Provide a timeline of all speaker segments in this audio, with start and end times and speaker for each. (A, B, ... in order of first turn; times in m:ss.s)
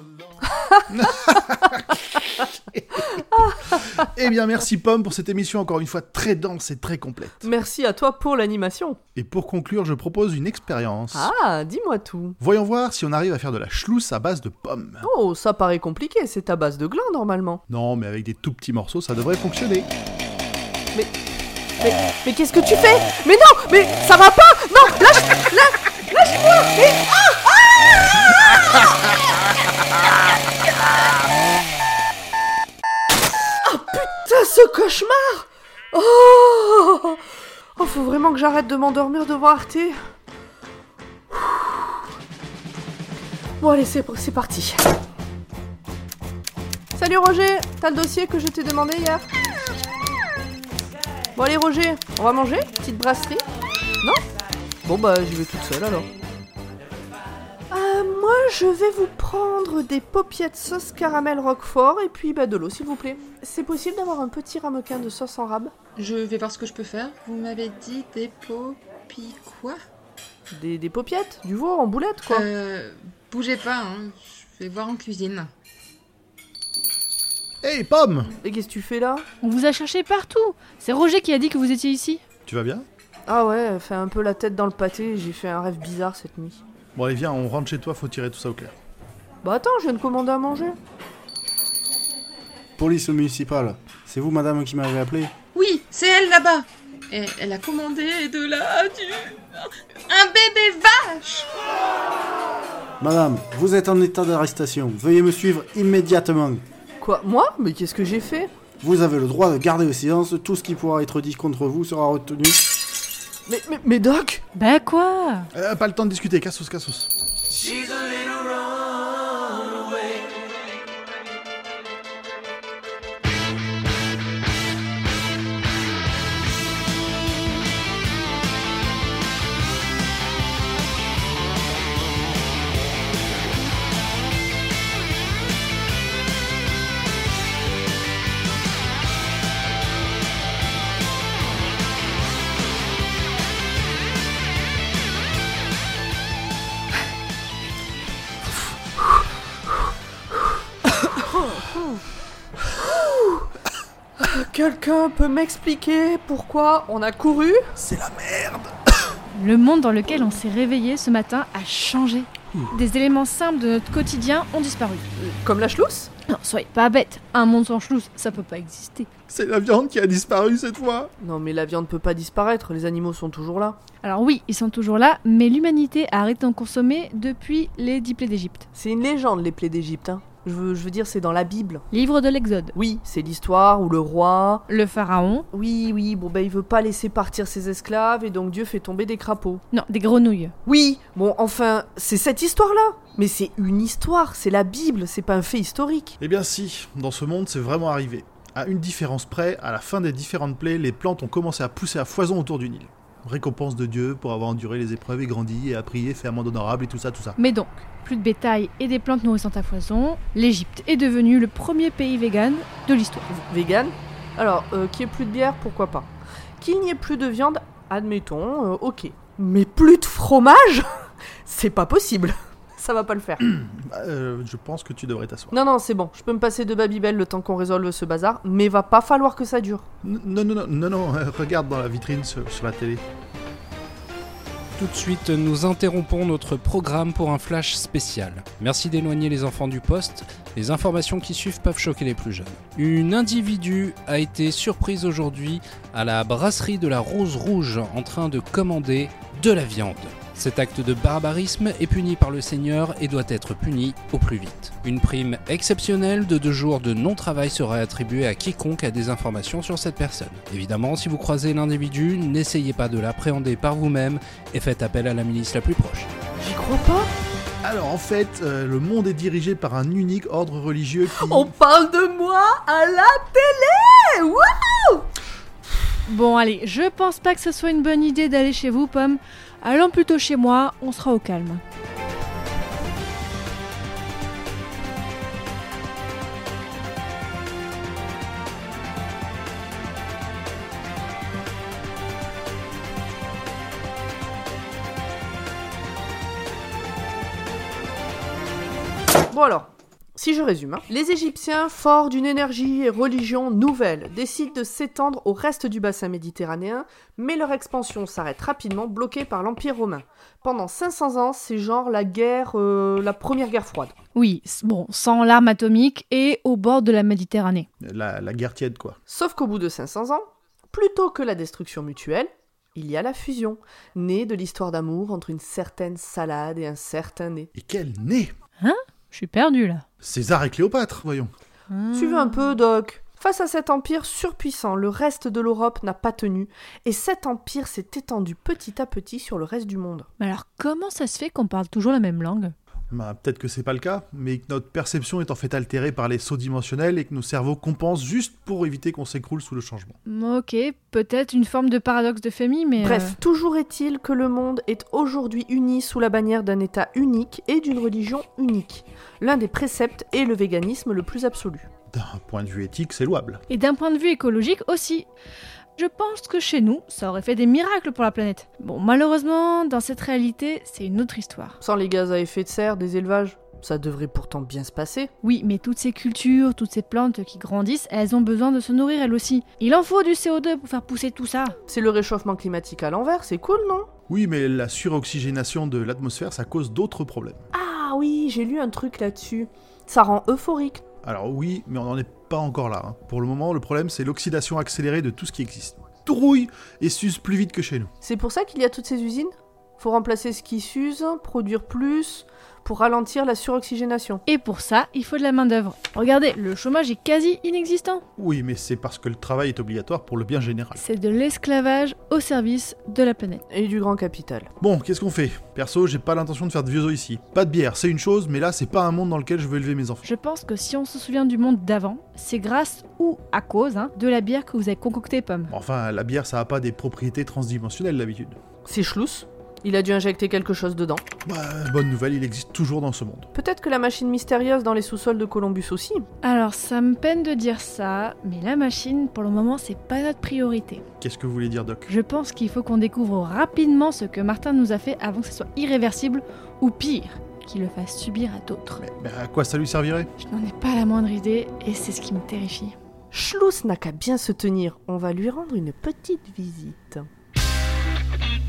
0:00.9-0:02.0 A
0:02.7-0:03.0 A
0:04.0-0:07.5 A
0:07.4-0:09.0 B
0:09.1-0:11.3 A
0:11.1-0:12.4 B
0:12.4-0:15.1 A
0:15.0-0:17.6 B
0:17.7-0:19.9 A
0:21.8-0:27.6 B
0:33.6-0:37.2 B
0:37.8-0:40.0 B
0:41.3-0:42.0 B
0:43.6-0:44.8 B
0:46.9-0:49.3 B
0:51.4-0:53.4 B
0:54.8-0:56.1 B
0:57.7-1:05.7 B
1:06.0-1:09.8 C
1:10.5-1:12.5 B
1:12.3-1:15.5 C
1:17.6-1:18.4 A
1:18.4-1:19.2 B
1:19.4-1:22.2 D
1:22.5-1:22.8 A
1:23.3-1:26.6 B
1:27.0-1:28.7 A
1:29.4-1:30.8 B
1:32.8-1:35.3 E
1:35.5-1:41.5 C
1:43.0-1:46.6 E
1:47.0-1:48.5 B
1:48.8-1:52.6 E
1:53.5-1:54.4 B
1:54.5-1:55.5 D
1:55.5-1:57.1 A
2:32.8-2:33.4 B
2:34.2-2:37.7 B
2:37.8-2:38.7 A
2:39.3-2:45.0 D
2:45.2-2:46.1 B
2:46.3-2:49.1 D
2:49.3-2:51.1 A
2:51.2-2:53.8 B
2:54.0-2:58.6 D
2:58.7-3:01.8 B
3:01.9-3:02.7 D
3:02.7-3:04.7 B
3:04.7-3:05.5 D
3:05.5-3:09.6 B
3:09.7-3:10.5 D
3:10.6-3:16.2 B
3:16.2-3:27.4 A
3:27.4-3:33.3 D
3:33.3-3:40.9 B
3:41.4-3:43.4 B
3:43.4-3:45.5 A
3:45.5-3:49.9 B
3:50.0-3:53.0 A
3:54.8-4:26.1 F
4:26.4-4:27.1 B
4:27.6-4:31.5 A
4:31.1-4:35.0 B
4:36.0-4:41.6 D
4:59.3-5:14.0 B
5:14.1-5:17.7 D
5:17.8-5:19.0 A
5:19.1-5:27.5 B
5:27.5-5:28.3 A
5:28.6-5:29.8 D
5:30.0-5:31.3 A
5:31.7-5:32.5 D
5:31.9-5:40.1 B
5:40.2-5:42.5 D
5:42.9-5:49.9 A
5:50.0-5:53.2 D
5:52.8-6:01.7 B
6:01.9-6:03.4 A
6:03.5-6:05.0 D
6:05.8-6:11.6 D
6:11.6-6:15.1 B
6:15.2-6:21.6 D
6:21.7-6:23.9 B
6:24.1-6:27.4 A
6:27.5-6:30.8 B
6:31.0-6:37.9 A
6:38.0-6:44.2 B
6:44.2-6:48.0 D
6:48.2-6:50.8 A
6:50.7-6:53.4 D
6:53.5-6:54.5 B
6:54.6-7:00.0 A
7:00.0-7:05.5 D
7:05.5-7:08.4 A
7:08.6-7:11.0 B
7:11.2-7:13.3 A
7:13.3-7:16.0 B
7:16.2-7:20.8 D
7:21.0-7:21.9 A
7:21.9-7:28.8 D
7:28.8-7:30.1 A
7:30.2-7:32.7 D
7:33.1-7:37.1 B